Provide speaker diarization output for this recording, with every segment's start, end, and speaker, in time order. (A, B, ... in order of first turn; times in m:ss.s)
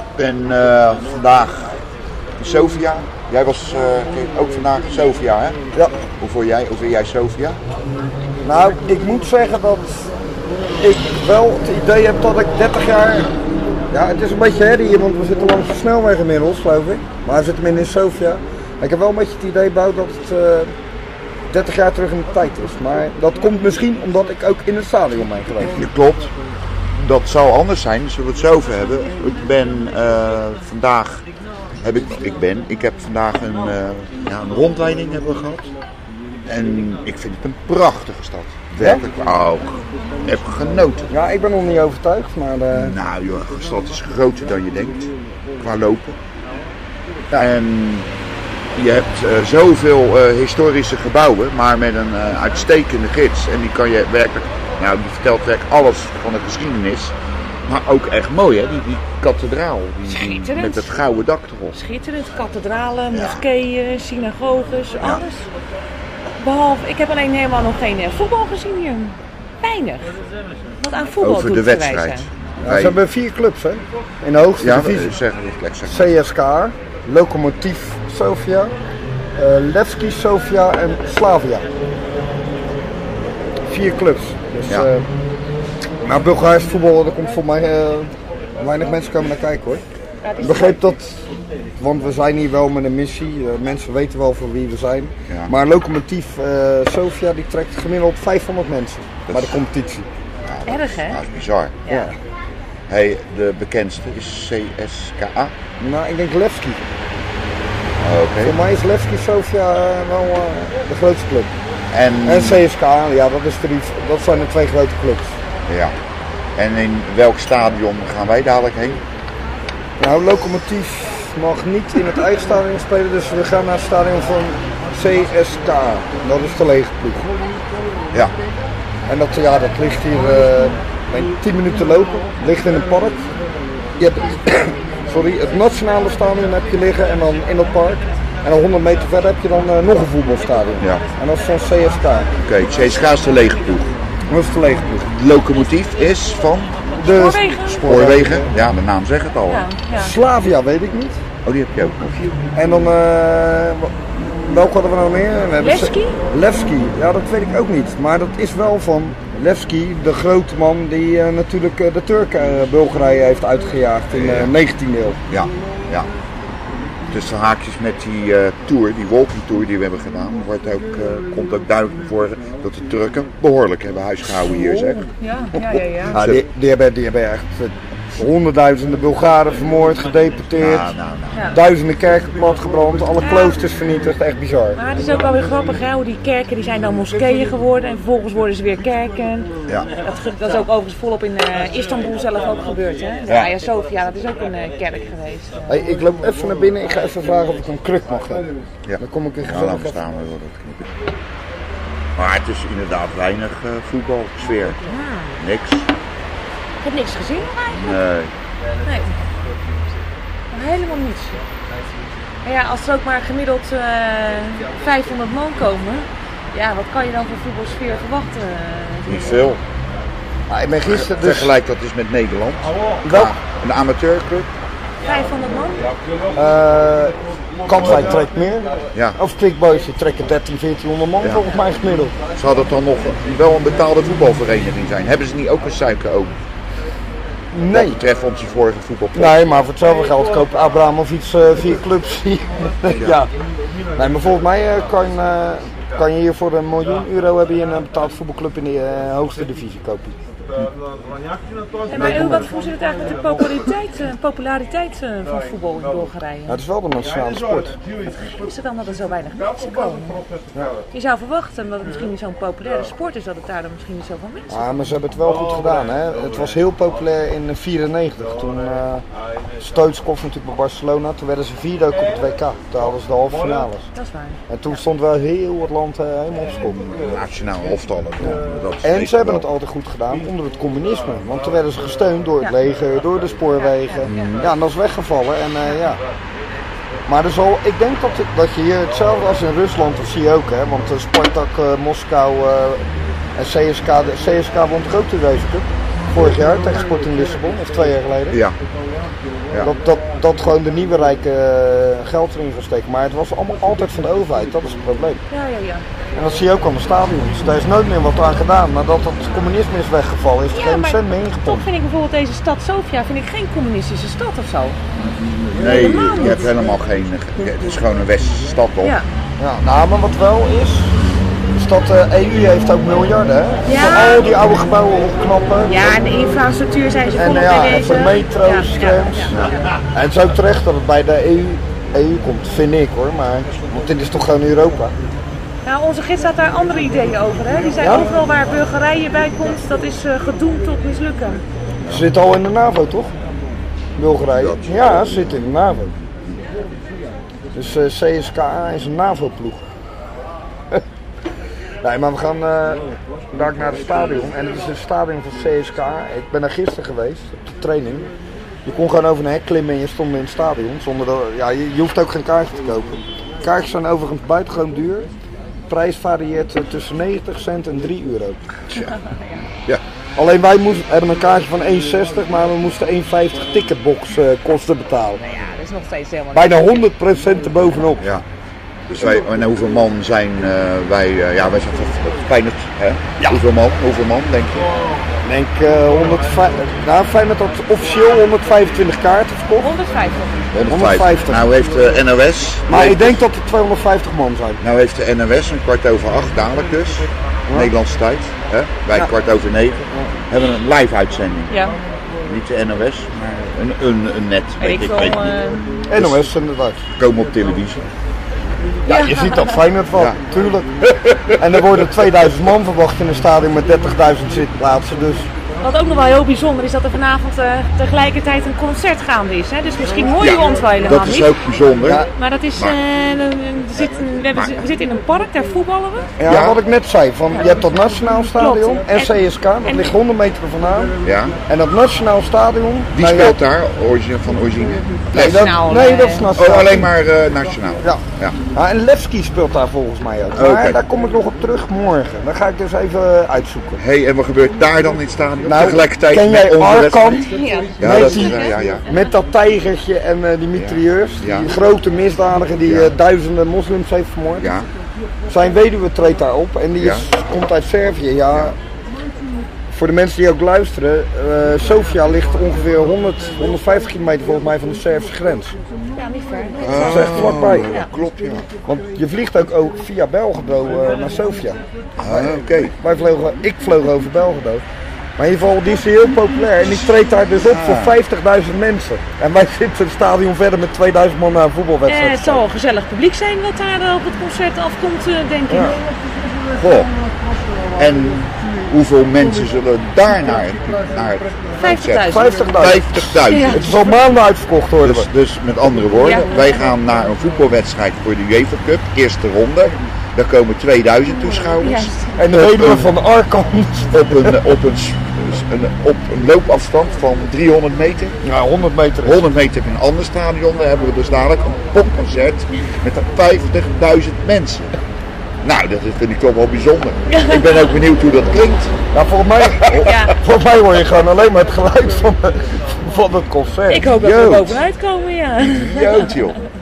0:00.2-0:01.8 A
0:02.4-0:05.6 A
0:05.7-0:06.0 B
0:06.2-0:07.6 A
0:08.4-0:10.1 B
0:10.8-0:13.3 B
0:13.9-0:20.7 B
0:21.5-0:25.8 B
0:25.6-0:26.3 A
0:26.9-0:31.2 A
0:31.8-0:35.7 A
0:36.5-0:41.1 A
0:38.8-0:39.0 B
0:41.1-0:43.0 B
0:42.7-0:46.2 A
0:47.3-0:48.1 A
0:48.7-0:57.1 A
0:57.6-1:01.8 A
1:00.1-1:00.9 C
1:01.7-1:05.5 C
1:03.1-1:03.4 A
1:06.4-1:10.2 C
1:10.8-1:12.3 C
1:11.2-1:13.0 A
1:12.6-1:15.2 B
1:14.6-1:16.1 A
1:15.8-1:18.7 B
1:19.4-1:21.7 B
1:23.6-1:25.0 B
1:26.0-1:29.8 B
1:30.2-1:30.8 C
1:30.4-1:31.2 B
1:31.8-1:40.1 B
1:39.3-1:39.6 A
1:40.4-1:41.8 A
1:40.6-1:41.2 C
1:41.8-1:42.1 C
1:41.9-1:42.1 B
1:42.9-1:45.5 A
1:45.8-1:46.8 B
1:48.0-1:48.6 A
1:48.4-1:51.5 B
1:51.9-1:52.6 A
1:52.2-1:55.4 B
1:55.7-1:56.0 A
1:56.6-1:59.0 A
2:00.0-2:07.3 B
2:09.1-2:13.4 B
2:14.0-2:22.3 B
2:22.4-2:23.9 A
2:24.3-2:25.1 B
2:25.1-2:26.9 A
2:26.9-2:28.5 B
2:27.1-2:28.0 C
2:27.7-2:29.6 A
2:29.5-2:30.1 C
2:30.0-2:31.2 B
2:31.4-2:32.2 A
2:32.5-2:45.2 B
2:35.6-2:36.2 C
2:44.1-2:44.5 A
2:45.3-2:46.1 A
2:47.1-2:55.0 A
2:54.4-2:56.2 C
2:56.1-2:56.4 A
2:56.1-3:00.9 B
3:00.6-3:01.5 A
3:01.5-3:04.8 B
3:03.2-3:03.6 C
3:04.8-3:15.7 C
3:15.7-3:20.0 B
3:18.8-3:20.9 A
3:22.2-3:24.8 A
3:24.8-3:25.4 C
3:25.4-3:25.9 A
3:26.8-3:28.0 C
3:27.7-3:28.3 A
3:28.8-3:29.2 C
3:30.5-3:31.4 C
3:32.4-3:39.5 C
3:39.1-3:39.6 A
3:40.5-3:41.5 B
3:40.8-3:44.5 A
3:43.0-3:43.4 B
3:45.0-3:45.9 C
3:46.3-3:52.2 B
3:47.8-3:48.2 A
3:51.2-3:51.5 A
3:52.3-3:56.4 A
3:57.5-3:58.0 B
3:57.7-3:59.6 A
3:59.1-4:03.3 B
4:02.9-4:03.2 A
4:04.0-4:10.2 B
4:11.9-4:16.6 C
4:11.9-4:12.5 B
4:16.5-4:17.8 B
4:18.2-4:20.3 C
4:20.9-4:25.0 C
4:24.5-4:29.0 B
4:29.6-4:33.9 B
4:33.9-4:34.8 C
4:34.5-4:36.8 B
4:36.4-4:39.4 A
4:38.8-4:46.0 B
4:43.6-4:44.1 C
4:44.1-4:44.4 A
4:47.1-4:58.4 B
4:58.3-4:58.5 A
4:59.6-5:05.2 B
5:05.3-5:05.8 C
5:06.1-5:11.7 B
5:10.5-5:14.8 C
5:15.5-5:19.0 A
5:15.6-5:16.6 C
5:19.4-5:21.0 B
5:21.5-5:26.0 B
5:23.6-5:24.3 C
5:25.6-5:29.6 C
5:27.1-5:34.9 B
5:35.6-5:41.4 C
5:37.8-5:38.1 B
5:41.9-5:43.1 B
5:44.0-5:45.9 B
5:44.3-5:45.4 A
5:47.5-5:49.7 B
5:51.8-5:58.1 B
5:58.6-6:05.1 B
6:05.7-6:08.5 B
6:08.7-6:09.4 C
6:10.2-6:15.2 B
6:15.2-6:16.9 C
6:16.3-6:18.1 B
6:18.0-6:18.2 A
6:18.9-6:24.7 A
6:25.2-6:29.7 B
6:29.6-6:30.5 C
6:30.5-6:33.2 A
6:30.7-6:31.5 B
6:32.7-6:34.6 B
6:34.6-6:41.6 A
6:37.5-6:37.7 B
6:39.9-6:40.1 B
6:41.5-6:41.8 C
6:42.2-6:45.3 A
6:44.6-6:45.6 C
6:45.9-6:46.8 B
6:45.9-6:46.3 A
6:47.0-6:47.9 A
6:48.8-6:49.6 C
6:48.9-6:50.7 B
6:50.8-6:52.0 A
6:51.4-6:55.3 B
6:55.6-7:01.4 C
7:00.2-7:02.0 A
7:01.8-7:02.1 B
7:01.9-7:06.1 C
7:03.8-7:04.6 A
7:06.2-7:10.9 B
7:06.2-7:06.6 A
7:08.3-7:09.9 C
7:11.0-7:11.4 A
7:11.5-7:13.4 B
7:12.9-7:15.5 A
7:15.1-7:16.9 B
7:15.1-7:16.3 C
7:16.4-7:18.4 A
7:17.8-7:23.8 B
7:20.4-7:20.8 A
7:23.8-7:27.2 A
7:25.4-7:27.3 B
7:27.2-7:29.0 C
7:27.8-7:28.9 A
7:27.8-7:34.5 B
7:30.6-7:31.5 A
7:32.6-7:32.9 A
7:34.4-7:34.7 A
7:35.3-7:38.6 B
7:36.8-7:37.1 A
7:39.7-7:45.6 B
7:46.0-7:47.9 C
7:46.6-7:48.5 A
7:46.6-7:47.8 B
7:48.6-7:54.6 B
7:52.0-7:52.7 A
7:55.2-8:02.4 B
7:57.4-7:58.0 A
8:01.9-8:05.9 C
8:05.5-8:05.8 B
8:06.5-8:06.9 A
8:07.8-8:13.9 A
8:11.6-8:12.6 C
8:12.0-8:15.1 B
8:13.3-8:13.7 C
8:14.8-8:22.9 A
8:16.0-8:16.7 C
8:21.6-8:22.2 C
8:22.2-8:24.4 B
8:23.9-8:28.2 A
8:28.2-8:29.2 B
8:29.0-8:34.7 A
8:35.4-8:38.8 A
8:37.1-8:37.7 C
8:38.9-8:44.6 B
8:39.5-8:40.0 A
8:39.8-8:40.1 C
8:43.7-8:46.2 C
8:45.4-8:46.4 A